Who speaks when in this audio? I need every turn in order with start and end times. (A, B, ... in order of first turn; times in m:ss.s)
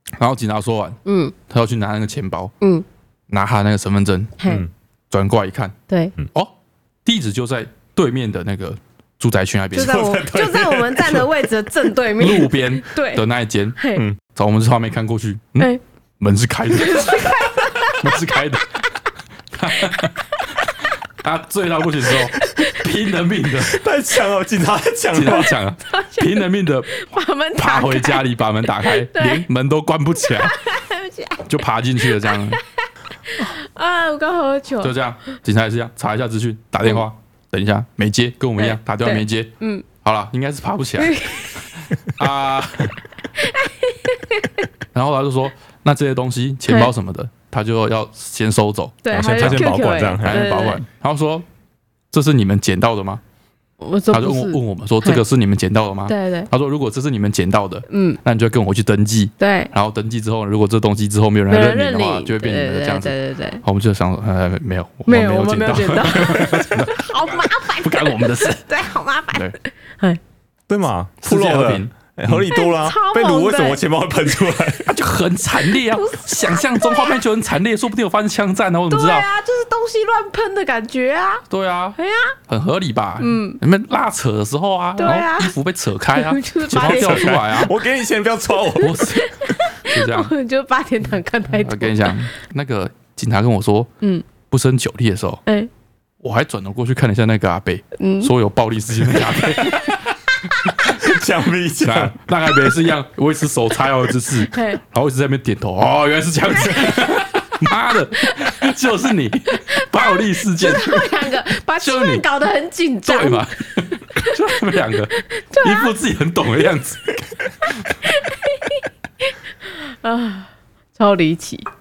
0:00.2-0:02.5 A
0:01.0-0:01.3 B
0:03.3-0:04.4 A
0:04.4-0:04.6 B
0:05.1-0:05.8 A
0:05.9-0:06.1 B
0:07.0-0:10.2 A
0:09.7-0:13.2 B
0:09.7-0:11.3 C
0:12.2-0:13.8 A
0:13.8-0:14.0 B
0:14.3-0:18.8 A
0:16.8-0:18.4 B
0:19.5-0:20.2 A
0:19.7-0:20.8 B
0:21.1-0:23.8 A
0:22.4-0:22.8 B
0:23.6-0:25.5 C
0:25.1-0:26.9 A
0:25.3-0:28.2 B
0:27.6-0:30.6 A
0:28.8-0:29.4 B
0:30.2-0:32.6 B
0:31.4-0:32.6 A
0:33.4-0:34.9 B
0:34.8-0:41.2 A
0:38.6-0:39.8 B
0:41.0-0:41.7 B
0:41.8-0:43.0 A
0:43.4-0:44.7 B
0:44.9-0:51.4 A
0:46.7-0:46.9 B
0:49.0-0:50.8 B
0:49.1-0:50.4 C
0:52.1-0:53.2 A
0:53.8-0:55.2 B
0:54.1-1:08.7 A
0:56.1-0:56.5 B
0:57.9-0:58.2 B
0:59.4-0:59.7 B
1:01.5-1:03.6 B
1:05.1-1:10.2 B
1:10.7-1:14.9 C
1:11.2-1:12.5 A
1:12.5-1:13.8 B
1:14.8-1:19.3 A
1:15.6-1:17.2 B
1:18.9-1:21.4 B
1:21.5-1:27.7 A
1:22.0-1:22.3 B
1:23.2-1:23.6 B
1:25.0-1:25.5 B
1:26.1-1:27.4 B
1:26.7-1:29.0 C
1:28.8-1:32.3 B
1:28.8-1:30.3 A
1:31.6-1:33.9 A
1:34.5-1:35.4 A
1:36.2-1:40.0 A
1:38.0-1:38.3 B
1:39.2-1:40.0 C
1:40.7-1:42.1 C
1:41.8-1:52.2 A
1:44.4-1:44.8 B
1:49.5-1:53.5 B
1:53.0-1:57.3 A
1:54.2-1:55.9 B
1:57.6-2:01.7 B